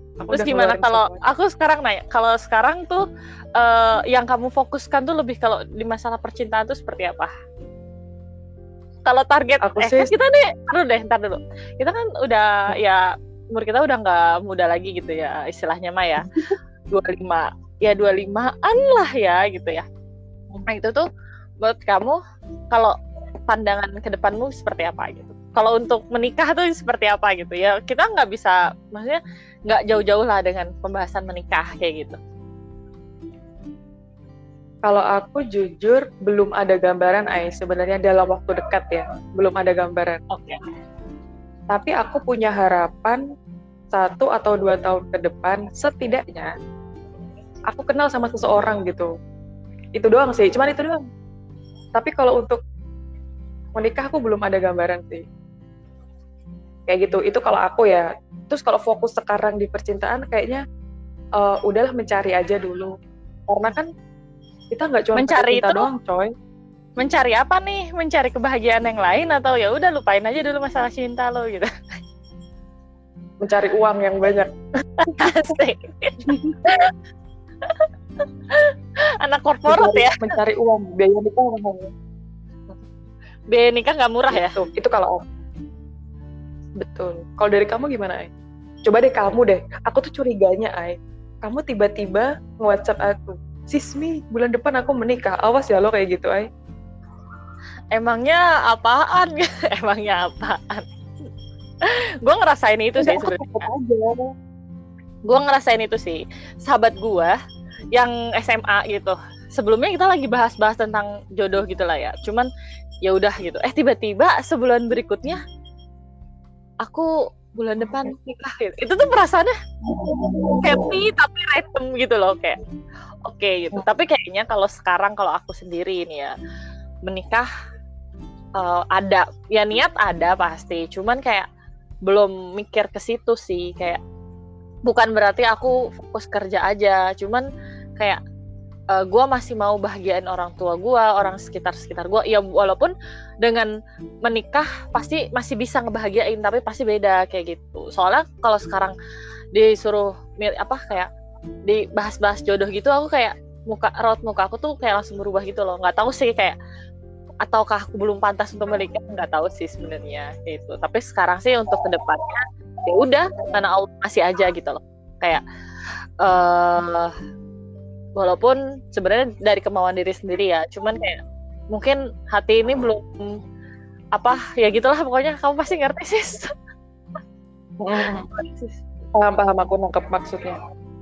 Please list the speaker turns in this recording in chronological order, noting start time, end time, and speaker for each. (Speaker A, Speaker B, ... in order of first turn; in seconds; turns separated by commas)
Speaker A: 0.2-1.2, Speaker B: 0.3-3.0, Speaker B: 3.6-7.3, Speaker B: 9.1-16.3, Speaker A: 9.6-10.1, Speaker A: 16.3-16.6, Speaker B: 16.9-19.9, Speaker B: 20.7-21.1, Speaker B: 21.6-22.2, Speaker B: 23.5-32.2, Speaker A: 34.9-40.2, Speaker B: 40.3-40.6, Speaker A: 41.7-43.2, Speaker A: 43.9-46.5, Speaker A: 47.7-49.1, Speaker A: 50.0-51.0, Speaker A: 52.0-52.6, Speaker A: 53.8-55.2, Speaker A: 56.9-60.6, Speaker A: 61.4-62.9, Speaker A: 63.5-63.9, Speaker A: 64.7-66.3, Speaker B: 65.2-65.9, Speaker B: 67.0-71.7, Speaker A: 73.4-74.5, Speaker A: 75.0-75.5, Speaker B: 75.0-76.9, Speaker A: 76.3-76.6, Speaker B: 78.5-80.2, Speaker A: 79.7-81.9, Speaker B: 83.5-84.6, Speaker A: 84.3-85.3, Speaker A: 86.8-88.3, Speaker A: 88.9-96.5, Speaker B: 97.9-100.9, Speaker B: 101.8-103.7, Speaker A: 103.0-104.2, Speaker B: 105.3-107.3, Speaker B: 108.0-112.5, Speaker B: 113.0-115.4, Speaker B: 116.8-119.5, Speaker A: 120.2-120.5, Speaker B: 120.6-122.6, Speaker B: 123.2-126.3, Speaker B: 127.1-127.5, Speaker B: 128.6-131.5, Speaker B: 132.1-134.0, Speaker B: 134.9-137.5, Speaker B: 138.9-143.7, Speaker B: 144.2-148.9, Speaker B: 149.6-151.1, Speaker B: 151.7-156.6, Speaker B: 157.5-165.4, Speaker B: 166.2-167.1, Speaker B: 168.2-171.2, Speaker B: 171.7-173.4, Speaker B: 174.2-176.5, Speaker A: 177.8-178.3, Speaker B: 178.3-178.8, Speaker A: 179.2-180.6